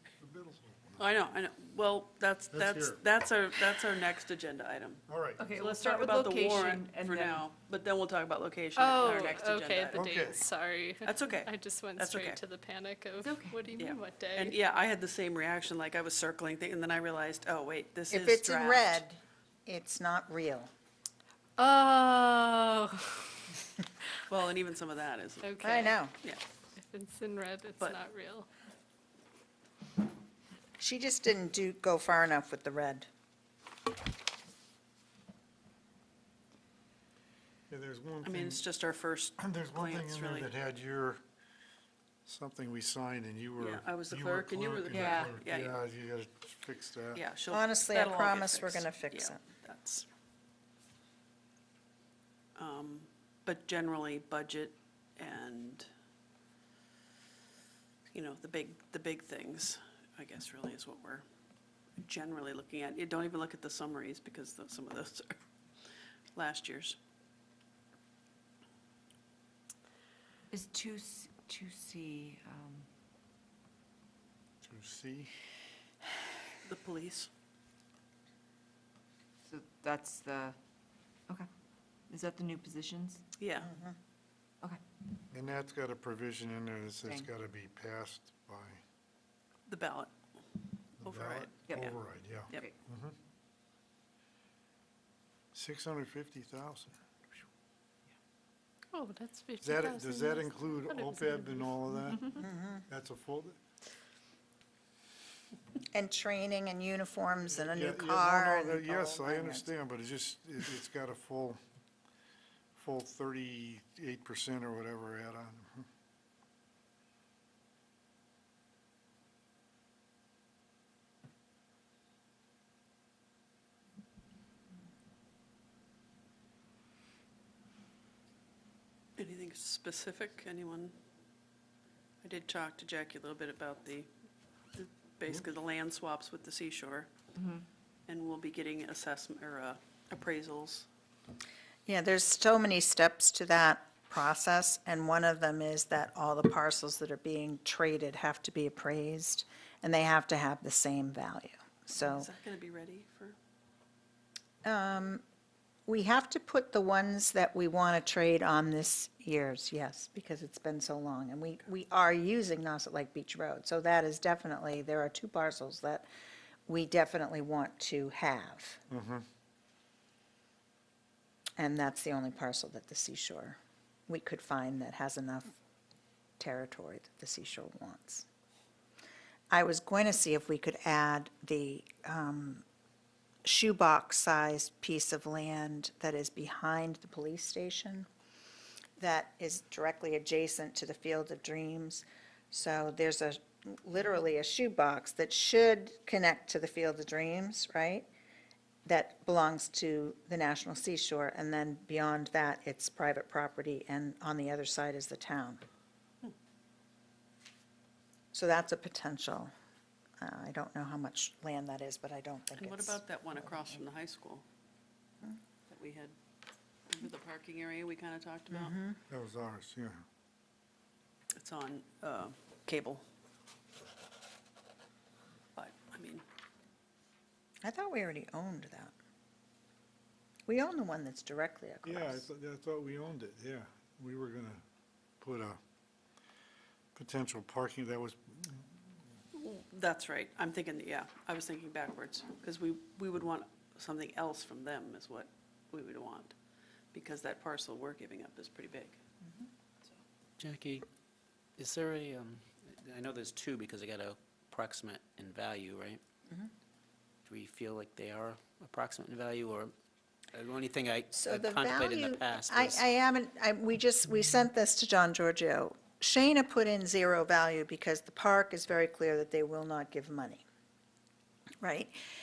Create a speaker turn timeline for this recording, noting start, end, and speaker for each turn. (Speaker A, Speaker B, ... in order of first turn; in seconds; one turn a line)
Speaker A: 0.2-1.1
Speaker B: 1.0-10.1
Speaker A: 2.5-3.0
Speaker A: 5.1-5.5
Speaker C: 5.4-7.5
Speaker D: 8.8-14.6
Speaker A: 9.9-10.4
Speaker B: 11.0-12.4
Speaker C: 13.2-13.8
Speaker B: 13.8-19.1
Speaker E: 18.1-20.7
Speaker D: 21.6-23.6
Speaker B: 24.3-26.4
Speaker D: 25.4-26.0
Speaker E: 25.6-26.1
Speaker D: 26.8-28.5
Speaker E: 30.8-33.1
Speaker A: 37.7-38.6
Speaker B: 38.2-40.5
Speaker A: 39.4-41.2
Speaker A: 42.3-47.2
Speaker B: 43.6-45.8
Speaker C: 44.9-45.2
Speaker B: 47.1-50.1
Speaker E: 47.5-49.4
Speaker B: 52.6-55.9
Speaker B: 58.1-61.2
Speaker B: 62.0-65.4
Speaker B: 66.3-67.0
Speaker C: 70.5-72.9
Speaker A: 74.6-75.3
Speaker B: 76.6-77.3
Speaker C: 79.5-80.6
Speaker C: 82.1-83.2
Speaker B: 83.4-83.7
Speaker E: 83.6-84.0
Speaker A: 85.3-88.8
Speaker B: 89.7-90.1
Speaker B: 91.0-92.0
Speaker A: 91.0-93.2
Speaker A: 95.5-97.0
Speaker D: 98.9-102.4
Speaker A: 99.6-103.6
Speaker E: 102.4-102.9
Speaker E: 105.9-109.7
Speaker A: 107.5-111.6
Speaker A: 112.8-115.9
Speaker B: 129.2-131.0
Speaker B: 132.2-134.1
Speaker B: 134.7-137.1
Speaker C: 137.4-137.6
Speaker B: 138.1-140.9
Speaker E: 141.9-152.3
Speaker B: 152.0-153.4
Speaker E: 154.7-155.2
Speaker E: 155.9-166.1
Speaker E: 166.7-168.8
Speaker A: 168.9-169.3
Speaker E: 171.6-175.6
Speaker E: 176.4-178.3
Speaker E: 179.5-182.6
Speaker E: 183.4-188.1
Speaker E: 189.0-198.1
Speaker E: 198.9-205.6
Speaker E: 208.3-209.5
Speaker E: 210.2-213.0
Speaker B: 212.6-214.4
Speaker B: 215.7-216.2
Speaker B: 216.9-218.8
Speaker E: 218.5-219.0
Speaker A: 219.1-220.0
Speaker B: 221.4-223.0
Speaker B: 225.6-226.2
Speaker E: 227.6-228.9
Speaker E: 230.5-232.3
Speaker A: 231.8-234.6
Speaker A: 235.2-235.6
Speaker A: 236.9-238.7
Speaker B: 239.3-246.3
Speaker B: 246.9-249.0
Speaker F: 250.4-250.8
Speaker F: 251.6-256.0
Speaker F: 257.3-259.7
Speaker F: 260.3-262.8
Speaker E: 261.1-270.4
Speaker E: 271.6-272.0